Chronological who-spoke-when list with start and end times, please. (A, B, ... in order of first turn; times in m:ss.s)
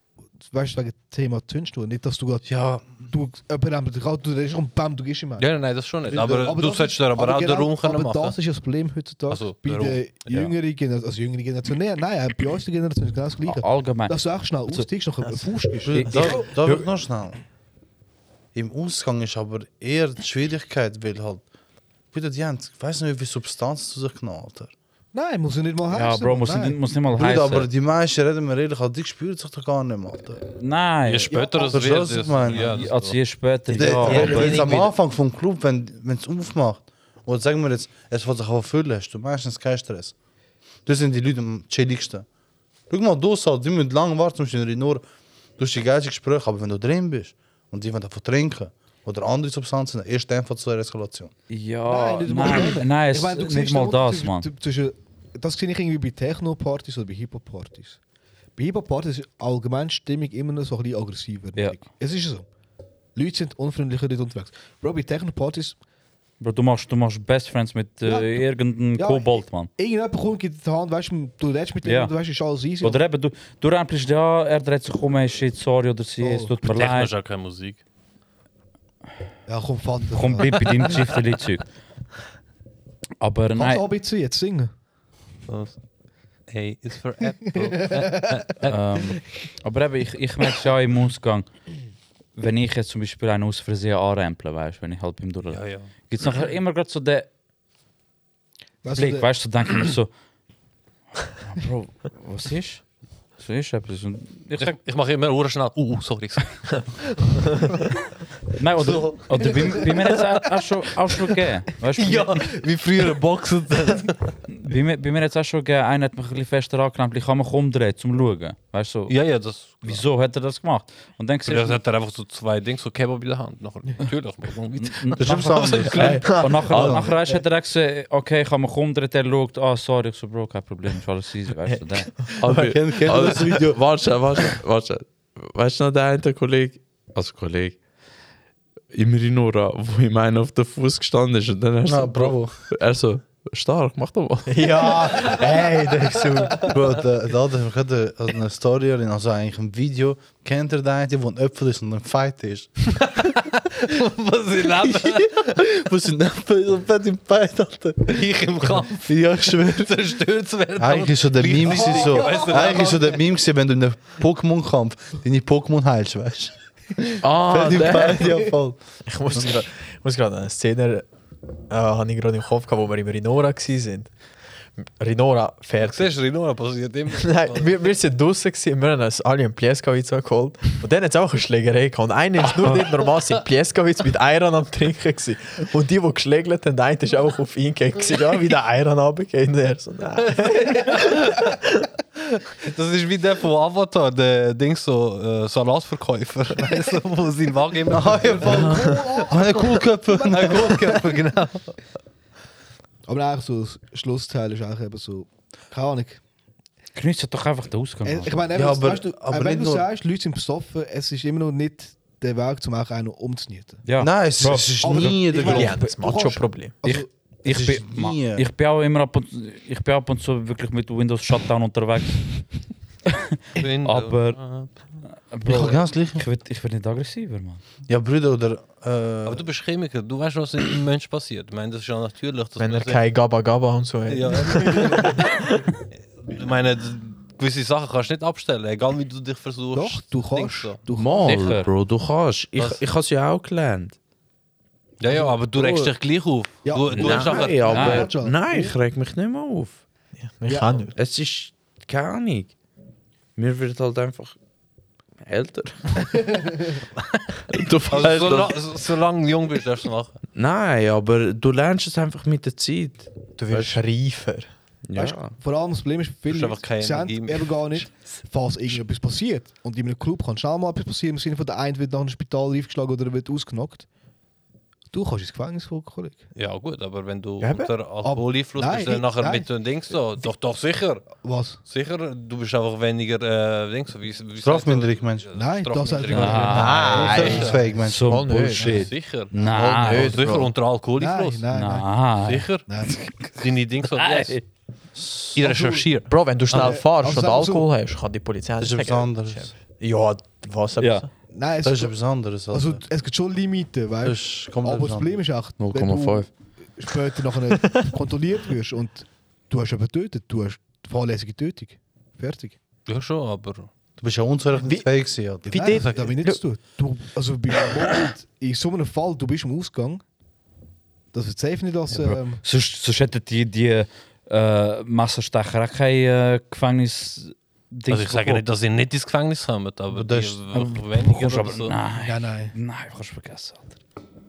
0:00.4-0:16.4 A
0:02.5-0:03.0 B
0:05.4-0:08.4 C
0:06.1-0:06.5 B
0:09.3-0:10.5 C
0:13.4-0:14.9 D
0:15.8-0:17.4 B
0:15.9-0:16.3 D
0:16.0-0:16.8 E
0:18.5-0:21.4 B
0:22.1-0:24.7 B
0:25.1-0:26.8 A
0:25.9-0:27.7 D
0:27.1-0:30.4 B
0:30.4-0:31.3 D
0:31.0-0:33.2 C
0:31.3-0:31.9 A
0:31.5-0:32.9 B
0:32.5-0:34.7 D
0:33.7-0:34.9 E
0:33.8-0:40.1 B
0:40.8-0:42.2 B
0:42.9-0:45.0 B
0:45.6-0:51.3 B
0:51.5-0:54.5 D
0:51.9-0:58.0 A
0:58.6-1:02.5 A
1:01.6-1:01.8 D
1:03.1-1:05.8 A
1:06.4-1:09.7 D
1:08.0-1:13.0 A
1:11.8-1:12.1 D
1:12.8-1:17.1 D
1:16.2-1:16.5 A
1:16.6-1:17.8 C
1:19.5-1:20.9 A
1:20.1-1:21.7 D
1:23.2-1:23.8 D
1:23.6-1:24.7 A
1:25.5-1:25.8 C
1:26.5-1:28.7 C
1:27.6-1:28.4 A
1:28.6-1:31.5 D
1:32.4-1:37.3 D
1:35.5-1:35.9 C
1:38.8-1:39.3 A
1:38.9-1:40.1 D
1:41.2-1:42.8 D
1:43.4-1:44.8 D
1:44.6-1:46.8 C
1:48.6-1:52.5 D
1:48.9-1:49.9 C
1:52.0-1:54.4 C
1:54.5-2:01.8 D
1:59.1-2:00.0 C
2:01.4-2:06.2 C
2:04.8-2:12.1 D
2:05.2-2:07.1 B
2:05.9-2:07.0 E
2:11.7-2:12.7 E
2:12.4-2:17.8 F
2:12.4-2:13.8 B
2:18.9-2:25.4 F
2:21.8-2:22.6 B
2:24.5-2:26.8 E
2:26.6-2:32.7 B
2:33.0-2:35.3 C
2:34.6-2:39.9 B
2:38.1-2:43.2 C
2:40.8-2:48.8 B
2:41.6-2:42.9 A
2:47.2-2:48.5 F
2:49.0-2:51.1 E
2:51.7-2:54.1 E
2:54.8-2:56.2 E
2:55.8-2:57.8 C
2:57.1-3:11.8 E
3:10.2-3:11.6 C
3:12.6-3:18.8 C
3:17.9-3:21.3 B
3:18.0-3:21.2 A
3:20.3-3:21.8 C
3:23.0-3:26.2 A
3:26.9-3:28.5 D
3:28.0-3:33.8 A
3:28.5-3:29.8 B
3:33.8-3:34.8 D
3:34.0-3:35.9 B
3:34.4-3:37.1 A
3:35.0-3:36.8 E
3:36.8-3:42.4 D
3:37.4-3:38.4 B
3:43.0-3:44.4 D
3:43.6-3:44.7 C
3:45.0-3:47.6 D
3:45.4-3:46.2 B
3:47.9-3:49.4 B
3:49.2-3:53.0 C
3:52.6-3:55.6 E
3:54.1-3:55.3 C
3:54.6-3:55.2 A
3:56.2-4:00.8 C
3:59.7-4:01.5 A
4:01.0-4:03.9 F
4:01.2-4:01.7 D
4:05.0-4:08.0 C
4:05.5-4:05.9 F
4:06.6-4:08.7 A
4:06.9-4:09.8 F
4:07.7-4:08.0 D
4:10.2-4:10.9 E
4:10.4-4:10.8 A
4:10.9-4:12.5 F
4:13.4-4:14.3 F
4:15.2-4:16.4 F
4:16.4-4:16.7 A
4:17.5-4:18.7 F
4:17.9-4:20.2 C
4:20.3-4:23.8 F
4:23.4-4:24.5 E
4:24.8-4:25.4 F
4:24.9-4:33.8 A
4:26.3-4:28.1 C
4:34.9-4:36.2 A
4:36.3-4:47.6 C
4:37.4-4:37.7 E
4:38.0-4:39.5 A
4:41.2-4:41.6 A
4:44.4-4:45.3 B
4:45.3-4:47.8 A
4:46.1-4:47.0 D
4:46.4-4:48.8 E
4:46.9-4:48.2 B
4:47.8-4:50.2 D
4:48.5-4:48.9 A
4:48.7-4:51.4 C
4:49.8-4:50.5 E
4:49.9-4:50.3 F
4:51.0-4:52.0 A
4:51.5-4:52.5 D
4:52.2-4:52.6 C
4:52.7-4:53.1 A
4:53.3-4:54.4 C
4:54.0-4:54.4 D
4:55.0-4:55.4 B
4:55.3-4:56.7 C
4:55.4-4:55.9 A
4:56.1-5:01.1 E
4:56.5-4:57.7 A
4:58.6-4:59.6 B
5:00.8-5:01.0 D
5:01.3-5:12.6 A
5:01.6-5:02.8 B
5:04.0-5:05.2 B
5:05.6-5:06.3 F
5:12.9-5:13.7 C
5:14.0-5:15.6 B
5:14.6-5:14.9 E
5:15.4-5:16.4 E
5:15.5-5:20.0 A
5:15.6-5:16.2 C
5:21.1-5:22.4 A
5:21.9-5:28.4 D
5:27.9-5:31.7 C
5:29.9-5:30.4 B
5:30.5-5:33.8 D
5:32.0-5:32.5 A